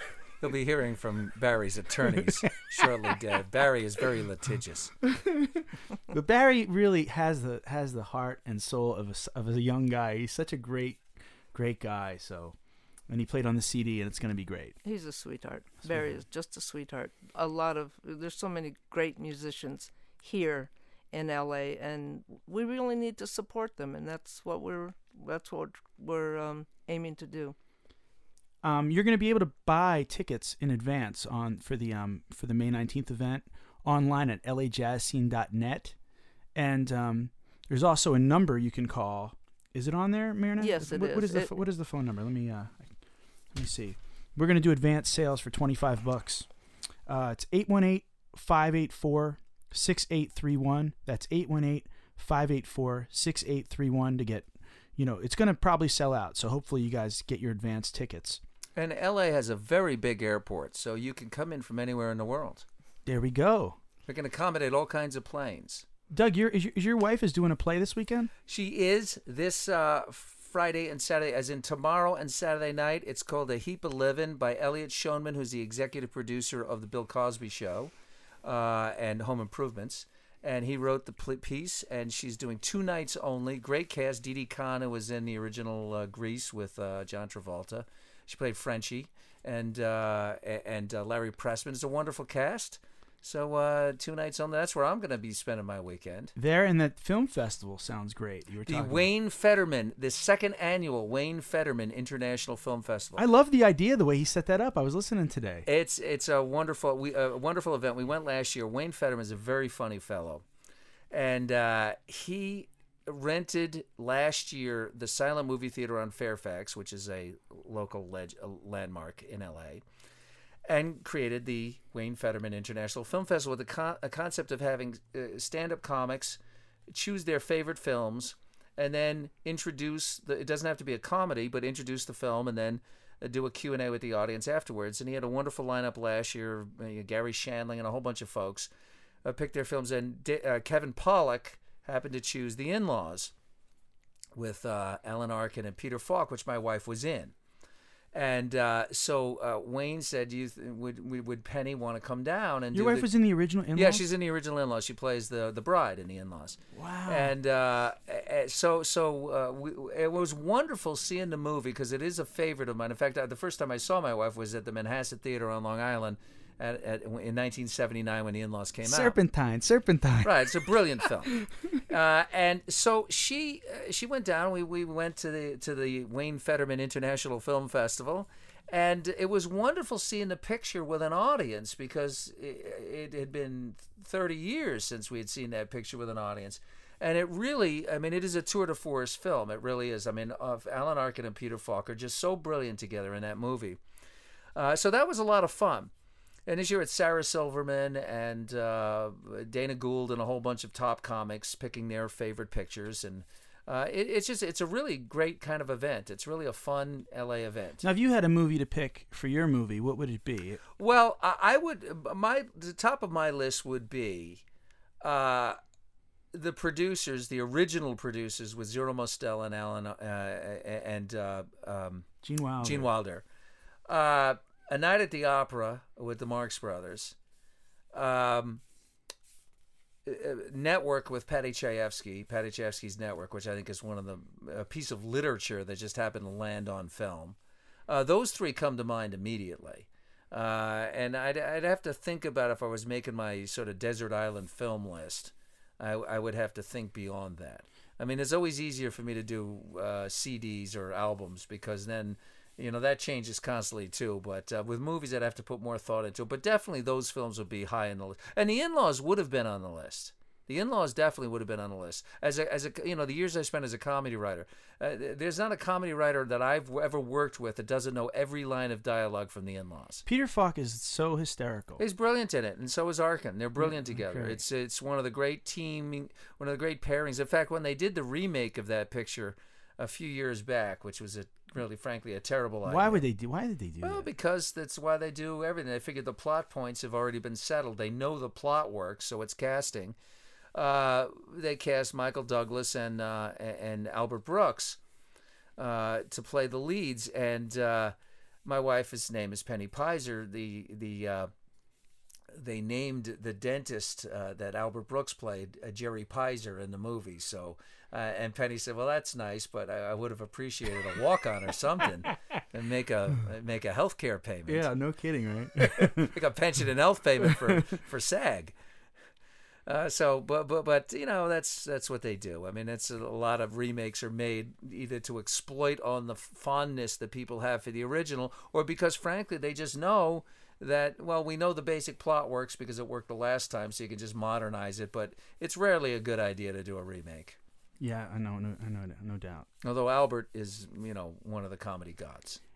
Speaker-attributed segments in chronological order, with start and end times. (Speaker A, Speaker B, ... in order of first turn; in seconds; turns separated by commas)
Speaker A: 0.4-5.1, Speaker B: 5.1-12.6, Speaker B: 13.1-14.8, Speaker C: 14.8-27.6, Speaker B: 28.6-36.0, Speaker B: 36.5-43.0, Speaker C: 40.6-41.5, Speaker B: 43.5-46.5, Speaker B: 47.1-58.4, Speaker A: 58.8-62.6, Speaker B: 63.0-63.8, Speaker A: 64.1-65.8, Speaker B: 66.1-68.3, Speaker A: 68.5-77.9, Speaker A: 78.4-96.3, Speaker B: 96.3-99.1, Speaker A: 98.7-103.2, Speaker B: 103.2-105.7, Speaker A: 105.7-110.4, Speaker A: 111.1-119.8, Speaker A: 120.7-138.7, Speaker A: 139.2-143.3, Speaker A: 144.3-147.3, Speaker A: 148.1-153.1, Speaker B: 152.7-154.0, Speaker A: 153.7-169.2, Speaker B: 156.7-157.3, Speaker B: 168.8-170.3, Speaker A: 170.2-193.8, Speaker B: 171.3-171.7, Speaker A: 194.6-195.9, Speaker A: 196.5-207.8, Speaker B: 207.8-210.6, Speaker A: 210.8-214.4, Speaker A: 215.0-215.6, Speaker A: 216.3-222.1, Speaker B: 222.2-222.9, Speaker A: 222.6-223.2, Speaker A: 223.9-227.1, Speaker A: 227.9-228.6, Speaker A: 230.0-237.4, Speaker A: 237.9-270.0, Speaker B: 270.1-271.8, Speaker A: 271.8-283.0, Speaker B: 273.6-274.4, Speaker B: 282.6-284.1, Speaker A: 283.8-289.9, Speaker A: 290.5-294.8, Speaker A: 295.6-301.3, Speaker A: 302.3-314.7, Speaker B: 314.5-316.1, Speaker A: 315.8-318.5, Speaker B: 317.2-317.5, Speaker A: 319.6-337.4, Speaker B: 337.8-339.5, Speaker A: 339.6-342.4